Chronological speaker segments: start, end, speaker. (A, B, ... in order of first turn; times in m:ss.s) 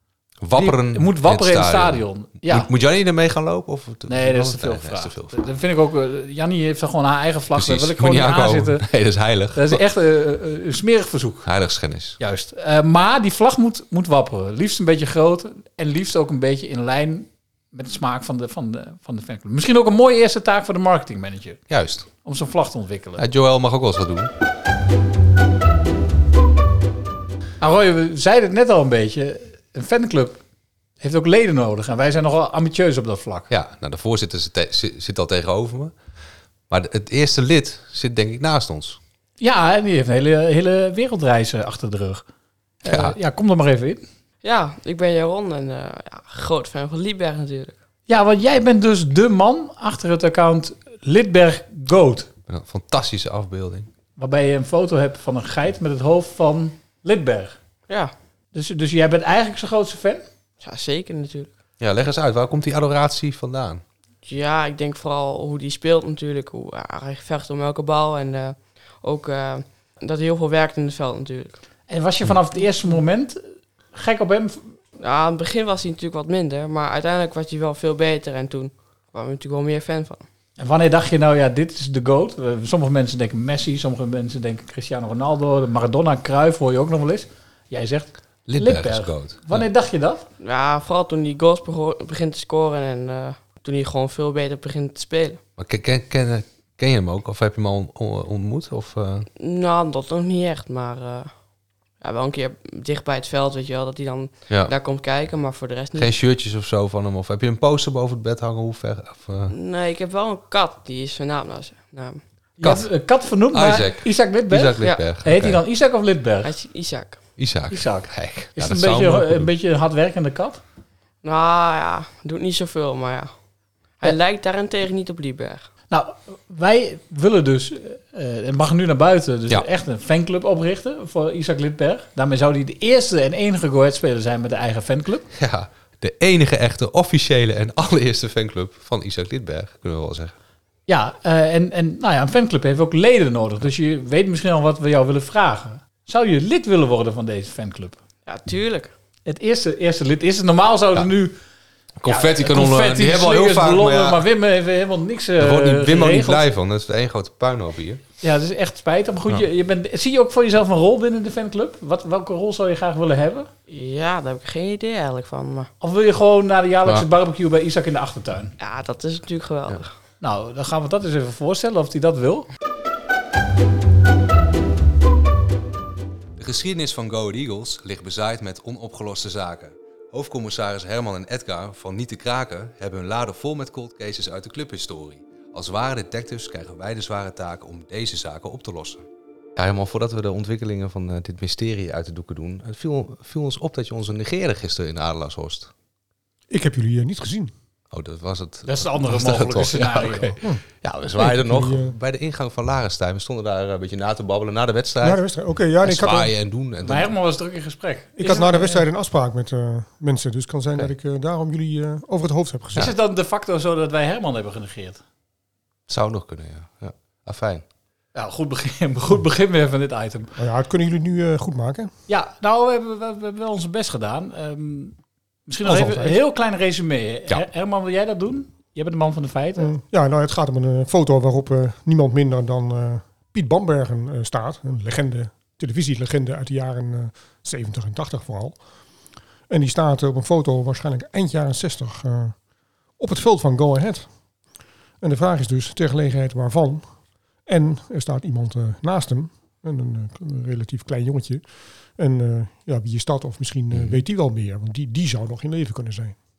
0:00.4-0:05.4 A
0:00.5-0:02.7 B
0:04.1-0:08.8 B
0:07.5-0:09.8 A
0:09.5-0:11.5 B
0:11.4-0:12.2 A
0:12.2-0:21.6 B
0:21.7-0:22.1 A
0:22.2-0:23.2 B
0:23.2-0:24.3 A
0:27.6-0:30.4 B
0:31.0-0:33.5 B
0:33.5-0:36.0 A
0:36.7-0:39.0 A
0:39.4-0:42.2 B
0:42.8-0:44.0 B
0:42.9-0:43.2 A
0:44.4-0:47.8 C
0:48.1-0:52.3 B
0:52.5-0:53.9 A
0:54.2-0:57.6 B
0:58.5-1:00.2 B
1:00.6-1:01.5 C
1:01.8-1:03.8 A
1:04.2-1:11.6 C
1:11.9-1:13.4 B
1:13.9-1:14.7 B
1:15.0-1:20.2 C
1:20.6-1:30.2 B
1:28.5-1:29.6 A
1:30.4-1:35.4 C
1:35.6-1:39.3 A
1:39.4-1:41.3 C
1:42.0-1:46.1 C
1:46.0-1:49.5 A
1:49.5-1:52.2 C
1:52.6-1:56.5 B
1:52.6-1:52.9 A
1:53.5-1:55.6 A
1:56.4-1:57.2 C
1:57.4-1:59.5 A
1:57.7-2:00.6 B
2:01.2-2:03.3 C
2:04.0-2:05.7 C
2:05.9-2:15.2 B
2:15.3-2:20.3 A
2:20.9-2:28.0 B
2:28.2-2:28.9 C
2:29.2-2:31.3 B
2:32.0-2:34.2 A
2:32.0-2:36.4 B
2:35.4-2:38.0 A
2:38.2-2:43.5 B
2:43.7-2:45.7 C
2:45.8-2:48.5 B
2:48.6-2:49.9 C
2:50.2-2:52.5 B
2:56.4-3:09.0 A
3:09.6-3:15.7 A
3:16.5-3:17.5 D
3:17.9-3:25.2 A
3:18.6-3:20.4 B
3:21.2-3:21.9 D
3:25.0-3:26.3 D
3:25.8-3:27.1 A
3:26.8-3:28.8 B
3:28.2-3:32.9 D
3:32.7-3:35.0 B
3:35.9-3:37.6 A
3:38.1-3:40.3 B
3:40.4-3:41.9 D
3:42.1-3:45.0 B
3:45.5-3:49.7 B
3:45.6-3:46.2 D
3:49.6-3:58.6 D
3:59.5-4:02.4 D
4:03.0-4:04.1 D
4:05.0-4:06.9 D
4:07.4-4:11.4 D
4:12.0-4:16.2 D
4:13.7-4:14.0 A